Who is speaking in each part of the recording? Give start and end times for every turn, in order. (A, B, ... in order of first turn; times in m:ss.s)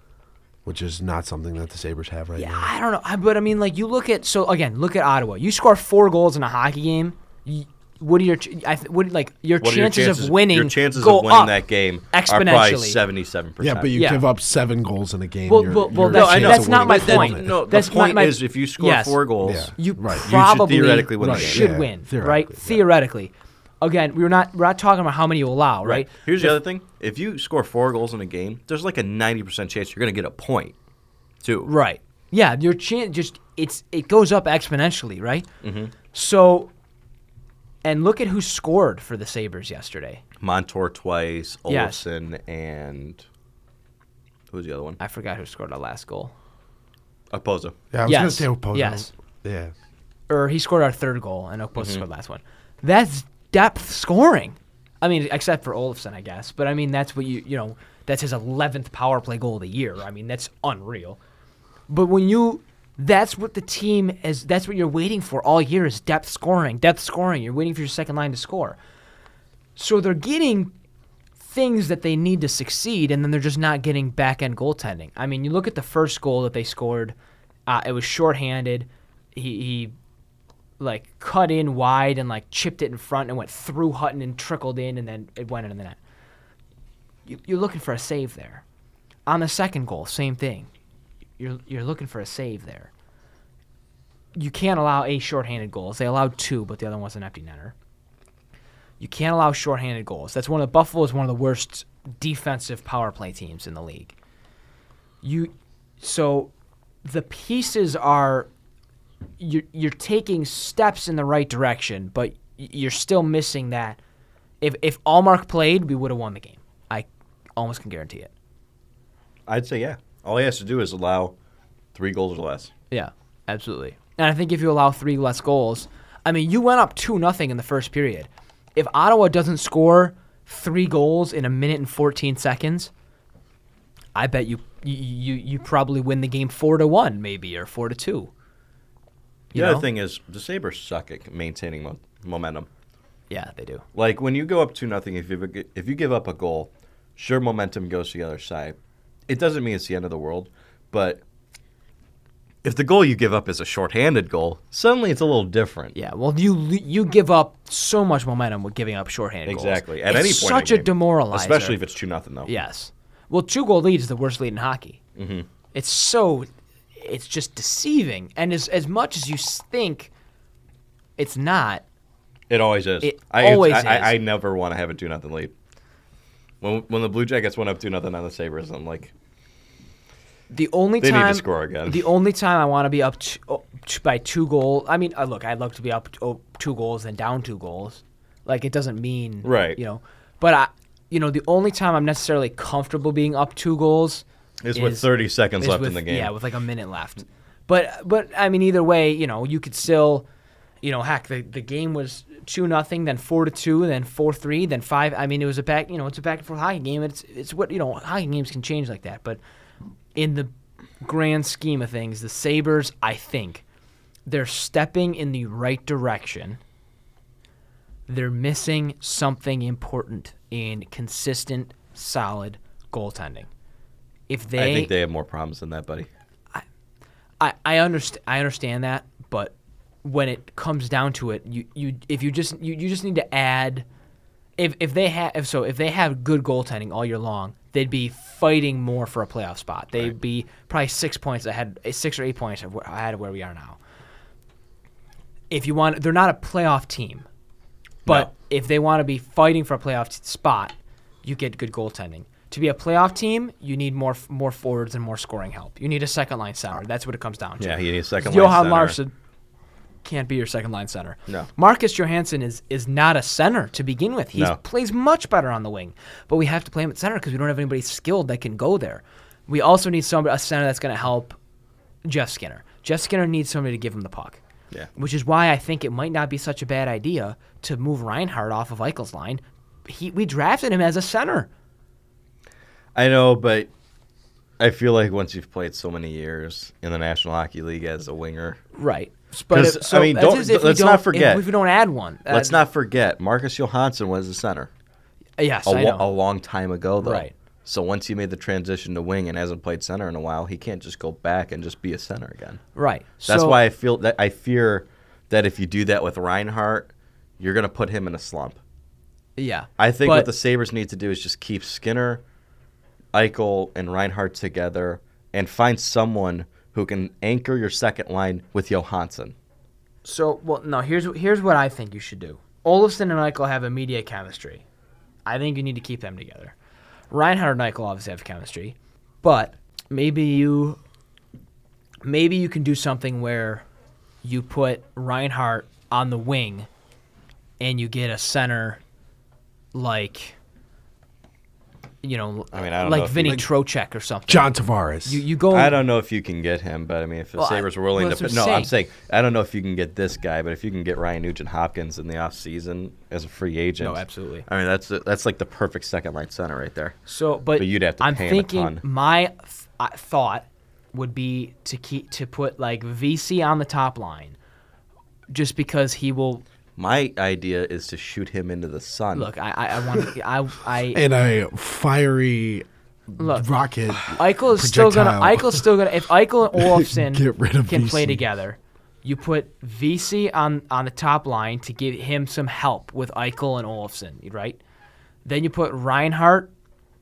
0:00.6-0:02.7 A
0:02.4-0:11.6 B
0:09.6-0:14.0 C
0:12.1-0:13.0 B
0:13.6-0:17.5 A
0:14.0-0:14.2 B
0:15.5-0:19.2 B
0:16.0-0:21.7 C
0:19.4-0:20.3 A
0:19.7-0:26.6 B
0:21.2-0:22.8 A
0:25.8-0:30.8 C
0:31.4-0:31.7 C
0:31.6-0:35.5 B
0:35.6-0:36.0 C
0:36.1-0:36.7 B
0:37.8-0:40.2 B
0:40.4-0:43.2 C
0:41.7-0:42.0 B
0:44.5-0:45.0 C
0:45.0-0:46.3 B
0:47.3-0:47.8 C
0:47.9-0:49.7 A
0:48.1-0:49.1 B
0:50.3-1:01.2 B
0:51.8-0:52.0 C
1:01.9-1:08.8 B
1:09.8-1:10.7 B
1:11.4-1:17.2 B
1:17.7-1:19.9 B
1:20.8-1:26.0 B
1:27.3-1:28.6 B
1:29.3-1:30.7 B
1:31.4-1:32.9 B
1:34.4-1:37.7 B
1:39.0-1:44.1 B
1:45.2-1:46.5 B
1:47.0-1:48.5 B
1:49.4-1:54.0 B
1:54.6-1:58.3 B
1:59.5-2:01.3 C
2:02.0-2:02.7 C
2:02.9-2:12.9 B
2:14.2-2:18.3 B
2:19.5-2:19.9 B
2:19.5-2:22.7 C
2:23.3-2:23.8 B
2:24.0-2:28.8 C
2:29.3-2:31.2 C
2:32.6-2:36.0 C
2:36.0-2:41.8 B
2:39.5-2:42.5 C
2:42.5-2:45.0 B
2:45.2-2:45.5 C
2:45.7-2:50.1 B
2:51.2-2:51.8 B
2:52.5-2:55.5 C
2:53.0-2:54.2 B
2:56.6-2:59.1 C
3:00.5-3:15.1 B
3:01.0-3:02.1 C
3:09.4-3:09.8 C
3:14.6-3:16.3 C
3:15.6-3:20.3 B
3:20.8-3:29.4 B
3:30.2-3:30.5 B
3:31.0-3:33.6 B
3:34.3-3:36.6 B
3:38.1-3:43.5 B
3:44.3-3:44.9 B
3:44.6-3:46.1 C
3:47.4-3:53.9 B
3:54.6-4:03.8 B
4:05.5-4:07.3 B
4:08.1-4:19.1 B
4:17.6-4:19.0 C
4:20.0-4:31.4 B
4:32.0-4:34.4 B
4:35.0-4:41.5 B
4:43.0-4:43.7 C
4:44.6-4:48.6 C
4:48.8-4:52.6 B
4:49.5-4:51.5 C
4:52.3-4:54.7 C
4:55.4-4:56.0 B
4:55.7-5:02.6 C
4:57.0-4:57.3 B
5:02.8-5:03.6 B
5:03.3-5:08.6 C
5:09.4-5:10.3 B
5:09.8-5:12.2 C
5:13.1-5:19.3 C
5:20.0-5:24.6 B
5:25.3-5:26.6 B
5:27.1-5:30.8 B
5:32.0-5:33.6 B
5:34.2-5:36.7 B
5:37.6-5:38.8 B
5:39.7-5:40.4 B
5:42.0-5:44.5 B
5:42.5-5:43.5 C
5:44.3-5:45.2 A
5:45.0-5:45.8 B
5:45.5-5:57.0 C
5:47.4-5:48.7 B
5:53.8-5:54.4 B
5:57.1-6:04.4 B
5:57.6-5:58.8 C
6:05.3-6:06.4 B
6:06.8-6:09.3 C
6:09.1-6:11.0 B
6:10.9-6:15.7 A
6:13.2-6:13.5 B
6:14.0-6:24.6 B
6:16.6-6:18.2 A
6:25.2-6:26.5 B